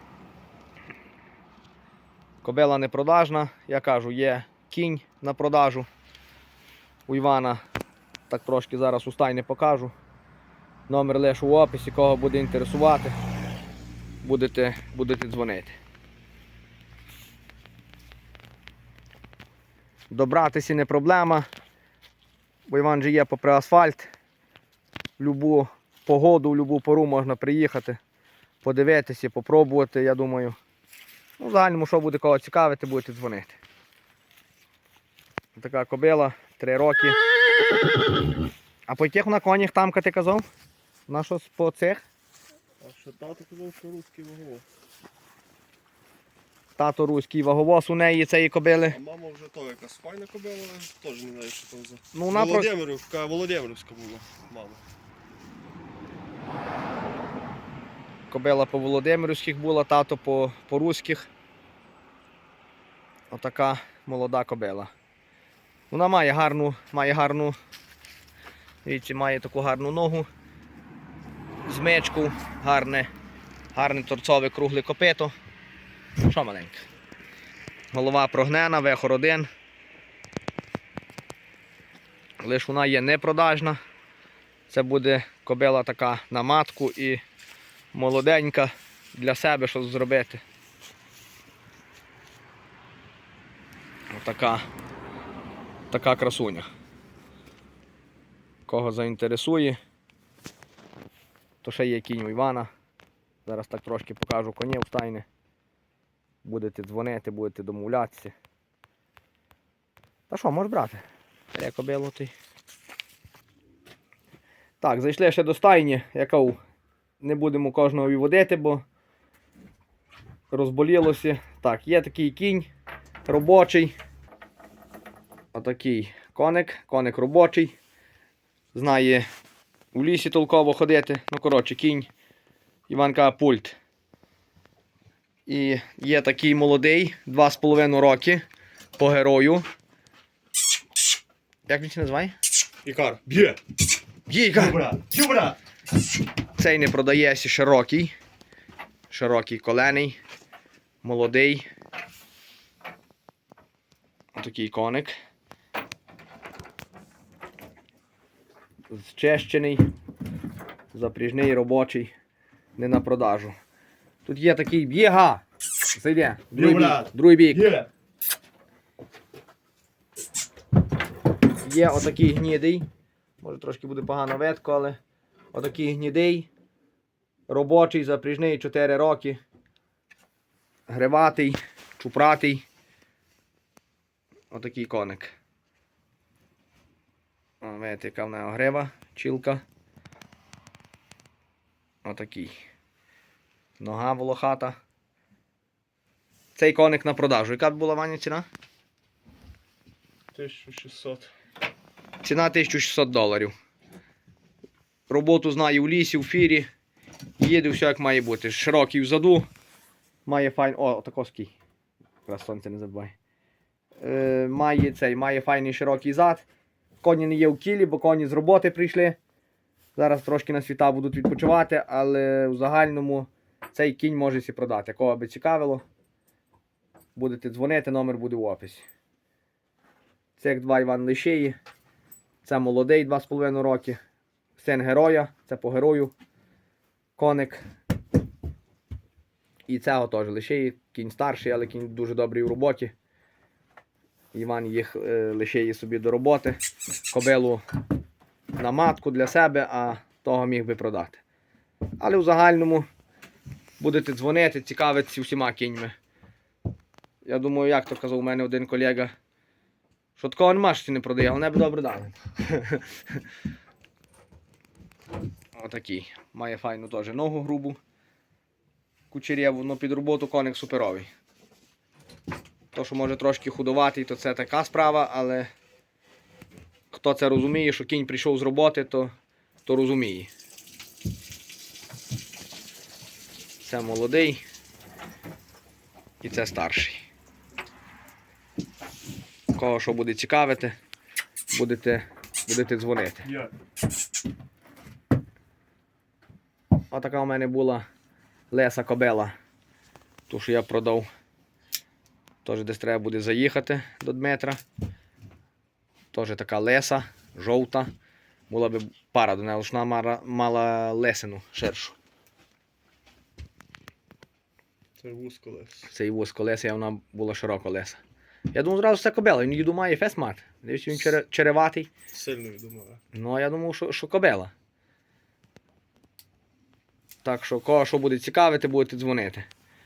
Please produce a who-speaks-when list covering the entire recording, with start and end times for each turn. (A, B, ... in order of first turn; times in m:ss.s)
0:02.4-0:05.9 A
0:07.1-0:07.6 A
0:08.3-0:09.9 A
0:10.9-0:13.2 A
0:14.2-0:15.8 A
0:20.1-0:21.4 A
0:22.7-0:24.1 A
0:25.2-0:28.0 A
0:28.6-0:30.6 A
0:31.4-0:33.6 A
0:35.6-0:37.2 A
0:38.9-0:40.4 A
0:41.1-0:42.0 A
0:42.8-0:44.6 B
0:46.8-0:49.0 A
0:48.9-0:54.8 B
0:52.1-0:52.7 A
0:58.3-1:01.3 A
1:03.3-1:04.9 A
1:05.9-1:07.5 A
1:08.8-1:10.3 A
1:11.6-1:13.1 A
1:13.7-1:15.3 A
1:16.2-1:16.8 A
1:17.9-1:19.5 A
1:22.4-1:23.8 A
1:24.7-1:27.2 A
1:27.9-1:30.4 A
1:34.1-1:34.6 A
1:35.9-1:36.7 A
1:38.7-1:39.8 A
1:41.6-1:42.7 A
1:43.4-1:45.2 A
1:46.4-1:48.3 A
1:50.3-1:52.3 A
1:54.8-1:56.6 A
1:57.2-1:58.8 A
2:00.5-2:02.7 A
2:03.3-2:03.9 A
2:05.5-2:07.7 A
2:08.7-2:09.2 A
2:09.9-2:12.1 A
2:12.9-2:13.8 A
2:15.5-2:18.4 A
2:19.0-2:19.6 A
2:21.7-2:22.3 A
2:22.8-2:23.6 B
2:24.3-2:24.8 A
2:24.6-2:25.6 B
2:26.6-2:28.1 A
2:29.1-2:30.2 A
2:31.0-2:31.6 A
2:34.4-2:35.1 A
2:38.9-2:39.8 A
2:40.9-2:42.1 A
2:42.8-2:43.5 A
2:44.2-2:47.7 A
2:46.5-2:47.9 B
2:51.6-2:52.8 A
2:53.4-2:55.0 A
2:55.5-2:56.5 A
2:57.5-2:59.4 A
3:00.9-3:02.6 A
3:04.5-3:05.4 A
3:07.6-3:09.6 A
3:12.0-3:12.5 A
3:13.8-3:14.8 A
3:16.6-3:18.4 A
3:20.3-3:21.3 B
3:22.2-3:23.5 A
3:25.1-3:26.7 A
3:27.4-3:29.4 A
3:30.2-3:31.5 A
3:32.3-3:33.1 A
3:34.0-3:36.4 A
3:37.0-3:39.2 A
3:40.0-3:45.8 A
3:47.2-3:48.8 A
3:50.4-3:51.6 A
3:52.4-3:54.0 A
3:54.6-3:56.1 A
3:57.2-3:57.6 A
3:59.7-4:02.9 A
4:04.3-4:06.6 A
4:07.1-4:07.6 A
4:08.6-4:11.2 A
4:12.0-4:12.8 A
4:13.8-4:15.9 A
4:17.2-4:19.1 A
4:20.2-4:22.8 A
4:25.6-4:27.8 A
4:29.1-4:31.1 A
4:32.7-4:35.5 A
4:36.9-4:39.1 A
4:39.6-4:40.3 A
4:43.6-4:44.4 A
4:46.2-4:47.0 A
4:49.5-4:50.7 A
4:51.5-4:53.3 A
4:56.9-4:57.8 A
4:58.5-4:59.3 A
5:00.3-5:01.0 A
5:02.4-5:04.6 A
5:06.1-5:07.9 A
5:08.5-5:12.0 A
5:15.0-5:15.9 B
5:15.9-5:18.0 A
5:18.5-5:21.9 A
5:22.1-5:23.0 B
5:23.1-5:24.5 A
5:27.2-5:29.4 A